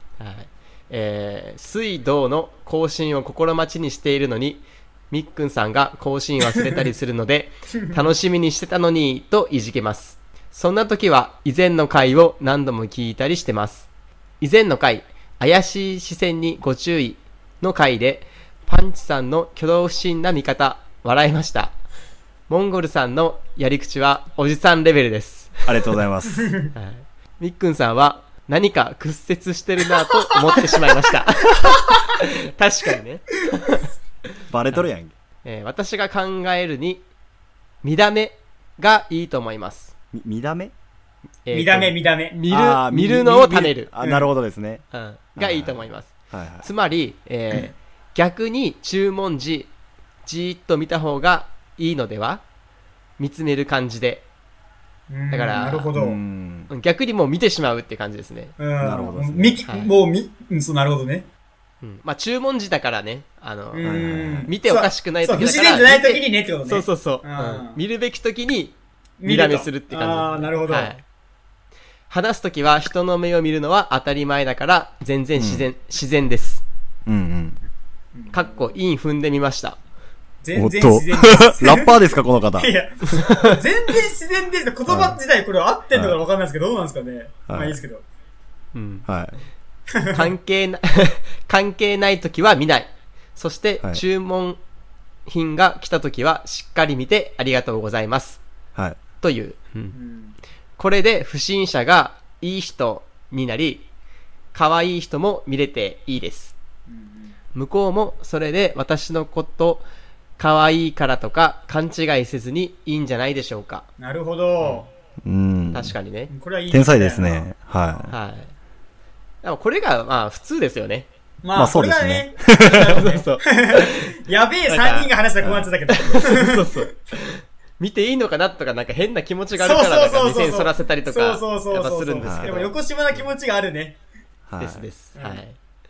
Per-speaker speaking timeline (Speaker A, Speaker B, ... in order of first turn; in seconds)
Speaker A: 0.2-13.9, 14.4-21.8, 22.5-25.9, 26.7-33.9, 35.4-37.0, 37.8-39.9, 41.5-43.9, 44.9-49.7, 50.2-52.4, 53.2-54.3, 55.3-55.9, 56.7-58.5, 59.6-59.9, 61.8-71.0, 72.1-76.6, 78.3-79.8, 83.1-83.6, 88.7-89.1, 90.1-94.6, 95.3-98.4, 99.2-100.0, 100.8-103.9, 104.5-106.5, 107.5-109.9, 110.4-113.9, 114.6-114.9, 115.7-116.3, 118.1-118.5, 119.4-121.1, 122.9-124.2, 124.7-125.1, 125.9-133.2, 134.6-135.6
Speaker B: 25.7-26.5, 34.5-35.1, 40.1-40.7, 42.5-44.9, 45.4-46.7, 55.9-56.7, 58.8-59.6, 63.8-64.5, 75.4-75.7, 77.1-77.6, 80.5-82.7, 84.9-85.2, 85.9-86.2, 87.5-87.8, 89.1-89.4, 98.8-99.0, 115.2-116.0, 116.7-118.1, 121.5-123.0, 125.4-125.7, 132.2-132.5, 134.5-134.9
Speaker C: 41.5-42.4, 44.0-44.3, 55.1-56.2, 58.6-61.3, 63.7-67.8, 69.2-71.0, 78.2-78.7, 80.4-82.0, 82.6-88.0, 89.9-90.3, 99.9-100.4, 106.9-107.4, 114.0-114.9, 116.3-118.0, 121.4-126.9, 129.6-134.0, 135.2-135.4